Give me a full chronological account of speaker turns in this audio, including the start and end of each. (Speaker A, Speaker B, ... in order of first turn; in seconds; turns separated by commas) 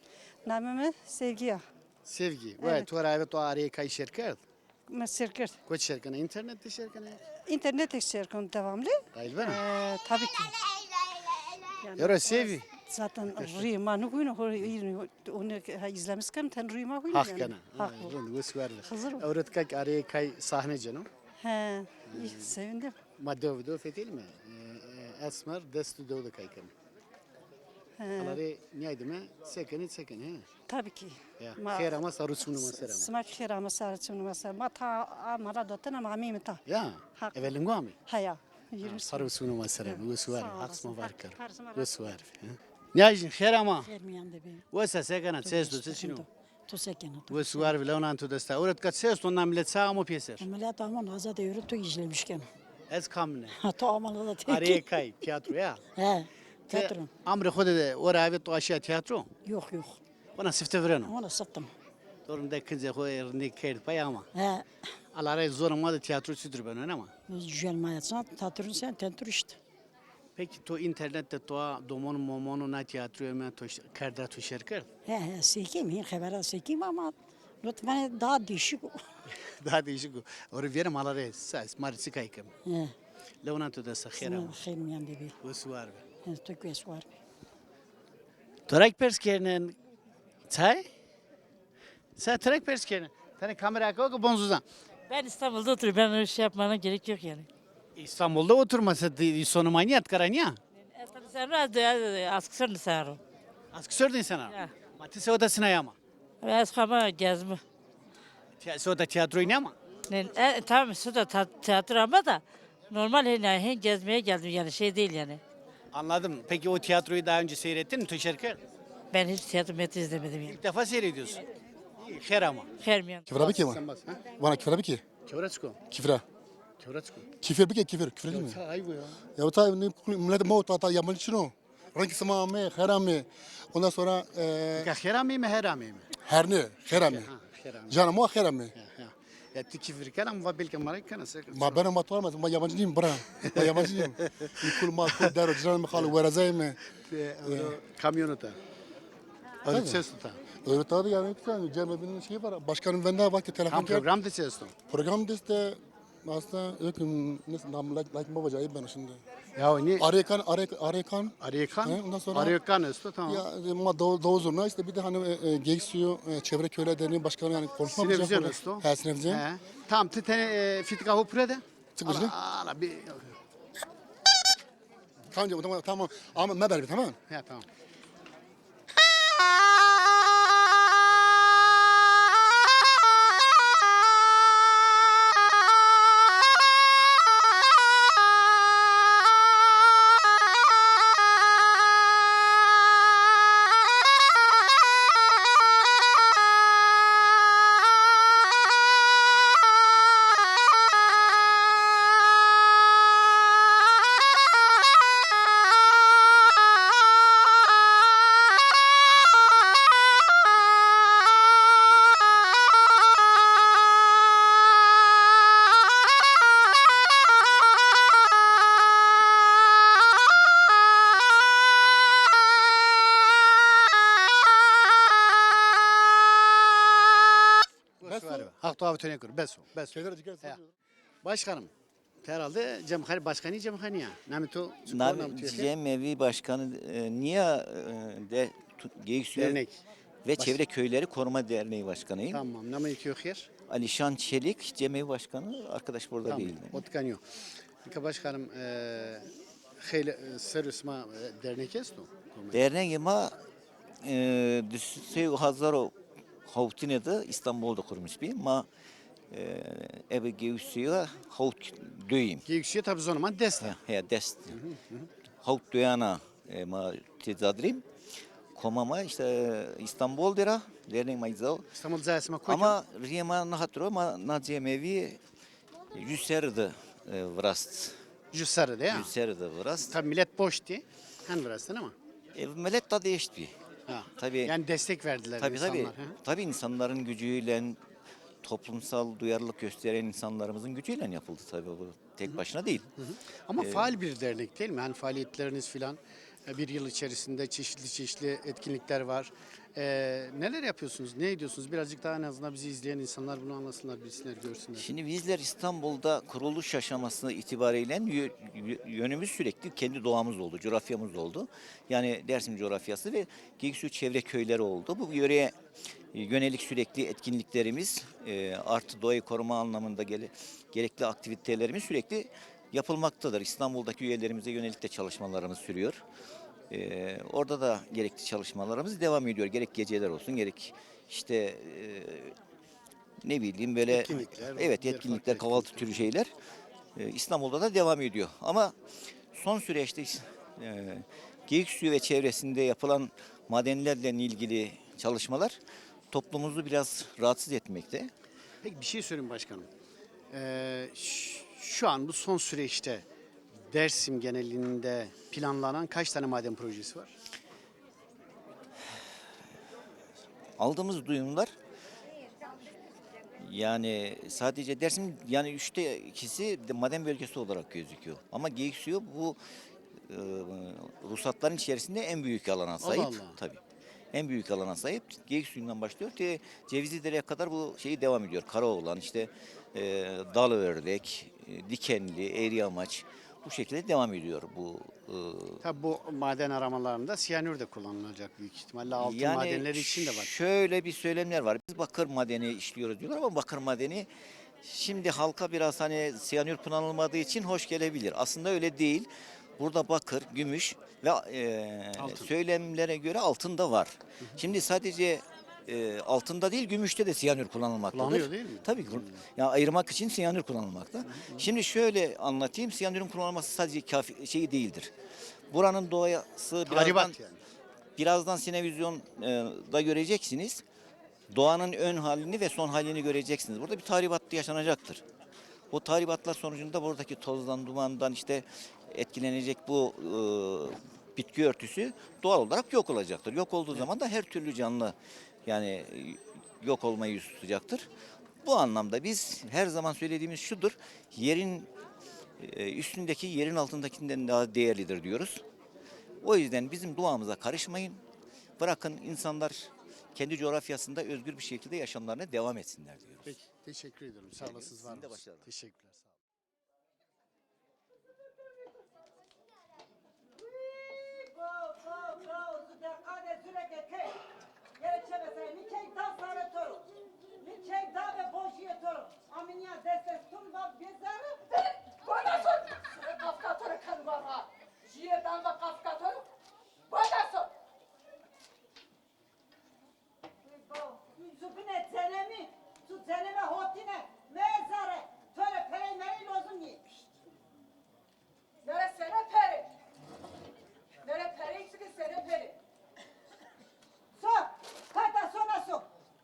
Speaker A: 0.4-1.6, Speaker B: 2.0-4.4, Speaker A: 2.6-2.9, Speaker A: 4.9-5.6, Speaker B: 5.6-7.2, Speaker A: 7.3-10.6, Speaker B: 9.1-9.6, Speaker A: 11.8-18.1, Speaker B: 12.0-12.7, Speaker B: 17.1-21.1, Speaker A: 18.9-19.3, Speaker A: 21.4-23.0, Speaker B: 22.1-22.5, Speaker B: 23.2-26.7, Speaker A: 28.0-28.4, Speaker B: 28.2-30.5, Speaker A: 30.7-36.6, Speaker B: 31.4-33.1, Speaker B: 36.6-38.0, Speaker A: 37.1-37.5, Speaker A: 38.1-39.3, Speaker B: 38.8-43.9, Speaker A: 39.8-42.2, Speaker C: 43.8-44.6, Speaker B: 44.7-46.2, Speaker C: 45.4-47.7, Speaker B: 47.3-50.5, Speaker C: 50.4-52.5, Speaker B: 52.9-53.6, Speaker C: 53.5-55.0, Speaker B: 54.4-55.8, Speaker C: 56.0-57.1, Speaker B: 56.7-59.3, Speaker C: 59.4-60.0, Speaker B: 60.4-61.1, Speaker C: 61.0-61.7, Speaker B: 62.2-64.3, Speaker C: 64.3-64.7, Speaker B: 65.1-67.1, Speaker C: 67.3-69.6, Speaker B: 70.3-74.9, Speaker C: 75.0-79.0, Speaker B: 79.4-82.5, Speaker C: 82.6-82.9, Speaker B: 83.4-84.6, Speaker C: 84.2-85.3, Speaker B: 85.4-86.0, Speaker C: 86.2-87.1, Speaker B: 88.7-89.8, Speaker B: 90.5-90.9, Speaker B: 92.2-94.6, Speaker D: 95.1-97.5, Speaker B: 98.0-100.6, Speaker D: 101.0-103.2, Speaker B: 103.7-106.0, Speaker D: 106.4-107.6, Speaker B: 108.6-109.7, Speaker D: 110.1-115.4, Speaker B: 115.9-118.6, Speaker D: 119.1-120.5, Speaker B: 120.5-121.4, Speaker B: 122.0-122.7, Speaker D: 122.8-123.2, Speaker E: 123.3-125.0, Speaker B: 123.3-124.2, Speaker B: 125.2-125.8, Speaker E: 125.9-126.2, Speaker B: 126.8-127.3, Speaker E: 127.4-128.6, Speaker B: 128.3-129.2, Speaker E: 129.3-134.9, Speaker B: 134.8-136.1, Speaker E: 136.2-137.3, Speaker B: 136.9-138.1, Speaker E: 137.9-138.7, Speaker B: 138.7-141.8, Speaker E: 141.5-146.8, Speaker B: 143.5-145.3, Speaker B: 147.0-148.6, Speaker E: 147.4-147.8, Speaker B: 149.6-150.5, Speaker E: 149.7-150.0, Speaker E: 150.6-154.1, Speaker B: 153.7-154.7, Speaker E: 154.9-159.2, Speaker B: 159.5-160.1, Speaker E: 160.0-162.6, Speaker B: 161.4-163.4, Speaker E: 163.2-169.4, Speaker B: 167.8-173.3, Speaker E: 172.0-172.3, Speaker E: 175.3-177.2, Speaker B: 177.3-177.7, Speaker B: 228.0-230.6, Speaker E: 228.0-228.5, Speaker E: 229.9-230.7, Speaker B: 231.2-231.7, Speaker B: 232.2-235.7, Speaker F: 234.8-239.6, Speaker B: 239.3-239.8, Speaker F: 240.2-242.4, Speaker B: 242.3-243.5, Speaker F: 243.7-246.8, Speaker B: 246.2-247.2, Speaker B: 247.8-249.3, Speaker B: 249.8-252.6, Speaker F: 252.5-253.3, Speaker F: 254.0-255.9, Speaker F: 256.5-258.7, Speaker F: 259.3-262.4, Speaker B: 262.4-263.8, Speaker F: 263.6-264.6, Speaker B: 264.5-265.1, Speaker F: 265.4-267.8, Speaker F: 268.5-271.7, Speaker B: 271.7-272.8, Speaker F: 272.5-275.2, Speaker F: 275.9-277.9, Speaker B: 278.3-279.1, Speaker F: 278.9-280.0, Speaker B: 279.8-281.9, Speaker F: 282.3-283.5, Speaker B: 283.9-286.2, Speaker F: 284.2-284.6, Speaker F: 285.4-287.8, Speaker F: 288.4-292.9, Speaker B: 293.0-304.9, Speaker F: 293.6-293.9, Speaker F: 304.8-315.5, Speaker F: 316.1-326.0, Speaker F: 326.7-332.3, Speaker F: 333.2-336.3, Speaker B: 333.9-336.1, Speaker F: 336.9-338.7, Speaker F: 339.3-345.6, Speaker F: 346.1-348.1, Speaker B: 348.6-349.7, Speaker B: 350.3-353.0, Speaker B: 353.7-357.1, Speaker F: 360.6-361.5, Speaker F: 363.4-369.4, Speaker F: 370.1-373.6, Speaker B: 372.8-373.4, Speaker F: 374.1-385.6, Speaker B: 385.6-390.3, Speaker F: 389.0-394.1, Speaker F: 394.6-414.9, Speaker B: 401.9-402.3, Speaker B: 407.9-409.2, Speaker B: 411.1-411.5, Speaker F: 415.5-417.2, Speaker B: 416.6-417.4, Speaker F: 418.0-420.6, Speaker F: 421.3-425.0, Speaker F: 425.7-434.9, Speaker F: 435.4-437.9, Speaker F: 438.4-441.7, Speaker F: 442.4-445.4, Speaker F: 446.2-448.0, Speaker F: 448.6-453.4, Speaker B: 453.2-456.1, Speaker F: 454.4-455.5, Speaker A: 460.8-464.2, Speaker A: 464.8-476.2, Speaker A: 476.9-477.4, Speaker A: 480.5-486.8, Speaker A: 488.7-489.7, Speaker A: 491.1-492.5, Speaker A: 494.1-495.9